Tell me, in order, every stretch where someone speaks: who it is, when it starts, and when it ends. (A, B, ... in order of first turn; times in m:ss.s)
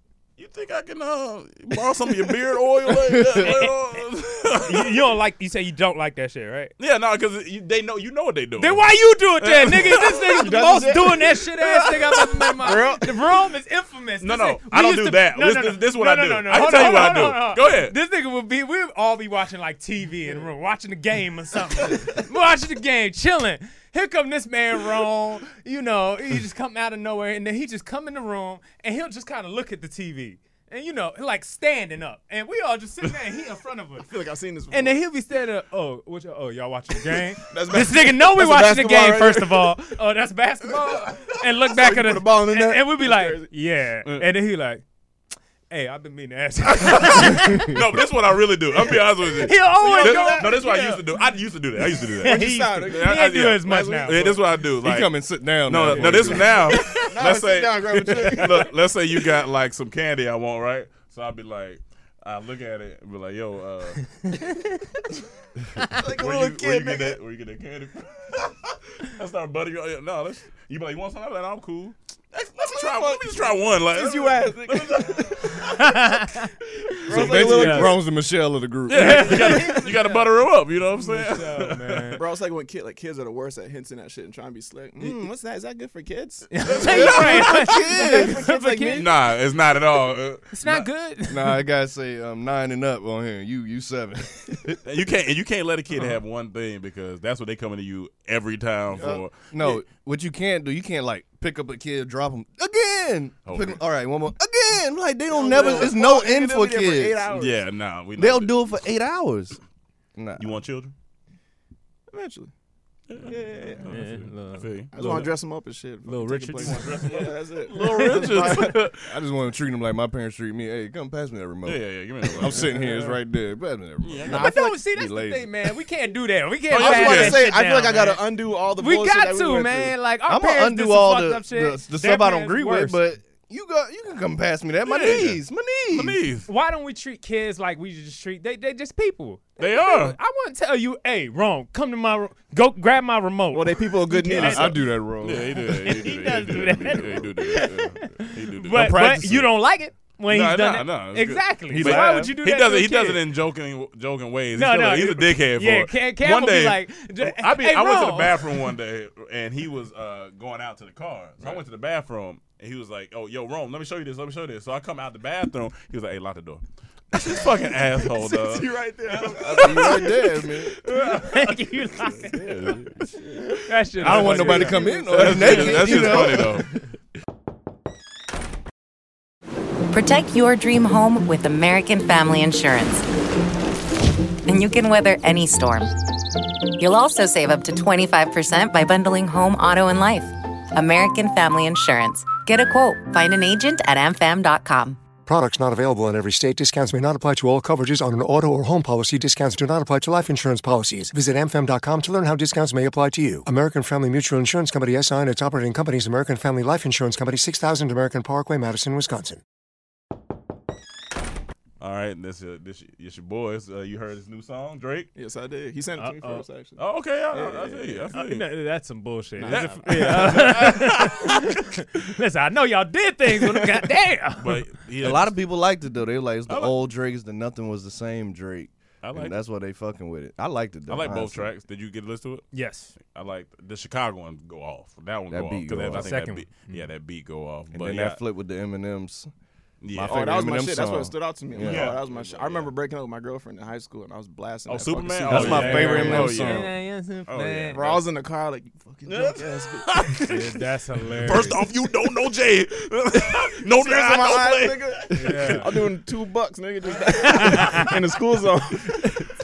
0:00.4-0:05.0 A
0:03.0-0:03.5 B
0:03.4-0:03.7 C
0:04.6-0:06.7 C
0:06.8-0:10.4 A
0:08.6-0:34.1 C
0:10.4-0:11.3 D
0:12.6-0:13.2 D
0:14.2-0:17.9 A
0:34.0-0:35.0 D
0:34.7-0:44.8 C
0:37.4-0:39.8 D
0:41.6-0:43.5 D
0:45.7-0:47.7 C
0:46.7-1:04.1 A
0:47.4-0:47.8 B
0:49.4-0:50.7 C
0:49.7-0:51.1 D
0:52.1-0:54.5 D
0:52.2-0:54.2 C
0:54.6-0:56.7 B
0:55.9-0:57.0 C
0:56.9-0:58.7 D
1:04.2-1:04.8 C
1:05.9-1:07.2 D
1:06.2-1:15.8 A
1:12.6-1:15.6 D
1:15.7-1:18.0 C
1:17.1-1:18.1 D
1:17.1-1:19.7 B
1:17.2-1:17.6 A
1:18.9-1:22.2 A
1:18.9-1:20.1 C
1:19.9-1:20.2 D
1:21.0-1:22.2 C
1:22.1-1:29.2 D
1:26.5-1:29.0 C
1:26.6-1:27.6 A
1:26.9-1:28.4 B
1:28.9-1:30.9 A
1:30.5-1:31.6 C
1:31.3-1:34.8 B
1:34.8-1:39.8 A
1:39.0-1:47.3 B
1:43.4-1:43.8 A
1:45.3-1:47.6 D
1:47.3-1:48.8 A
1:48.2-1:49.6 B
1:50.2-1:50.4 B
1:50.4-1:50.9 A
1:52.1-1:52.5 D
1:53.1-1:55.3 A
1:53.2-1:53.9 D
1:53.9-1:55.1 C
1:54.9-1:58.8 D
1:56.0-1:56.9 C
1:56.6-1:59.1 A
1:58.9-2:05.6 B
2:01.6-2:03.1 A
2:04.0-2:04.5 A
2:04.2-2:04.8 D
2:04.3-2:08.2 C
2:06.7-2:07.4 A
2:06.8-2:10.0 D
2:08.8-2:13.0 C
2:10.2-2:16.2 B
2:14.8-2:16.5 A
2:16.5-2:24.8 C
2:19.6-2:20.2 A
2:23.5-2:24.9 D
2:24.3-2:25.9 B
2:25.2-2:29.4 A
2:25.6-2:33.2 C
2:28.7-2:29.4 B
2:30.3-2:50.2 A
2:31.7-2:32.4 B
2:34.5-2:38.6 C
2:48.1-2:50.1 D
2:49.2-2:50.8 B
2:50.8-2:53.2 A
2:50.9-2:52.8 C
2:53.6-2:56.2 C
2:54.0-2:56.6 B
2:54.0-2:56.7 A
2:59.9-3:03.0 E
3:04.4-3:05.9 E
3:06.8-3:15.0 E
3:15.2-3:29.4 F
3:31.8-3:35.1 A
3:35.1-3:38.1 D
3:36.0-3:36.4 C
3:36.8-3:38.5 A
3:38.1-3:44.6 C
3:39.4-3:40.6 D
3:39.5-3:41.5 A
3:44.4-3:45.4 A
3:45.0-3:51.5 B
3:46.5-3:46.7 A
3:49.0-3:49.4 A
3:50.9-3:52.4 A
3:52.5-3:52.9 C
3:53.0-3:58.2 A
3:55.3-3:56.1 B
3:55.9-3:56.8 C
3:57.7-3:59.3 B
3:59.8-4:00.4 A
3:59.9-4:01.9 B
4:00.1-4:06.2 D
4:01.6-4:02.7 A
4:04.7-4:06.7 A
4:05.2-4:06.7 B
4:05.4-4:07.8 C
4:07.3-4:08.0 A
4:07.7-4:10.2 D
4:09.0-4:10.5 A
4:10.2-4:11.6 C
4:11.2-4:15.9 A
4:13.6-4:19.3 D
4:15.1-4:15.7 C
4:17.3-4:17.8 C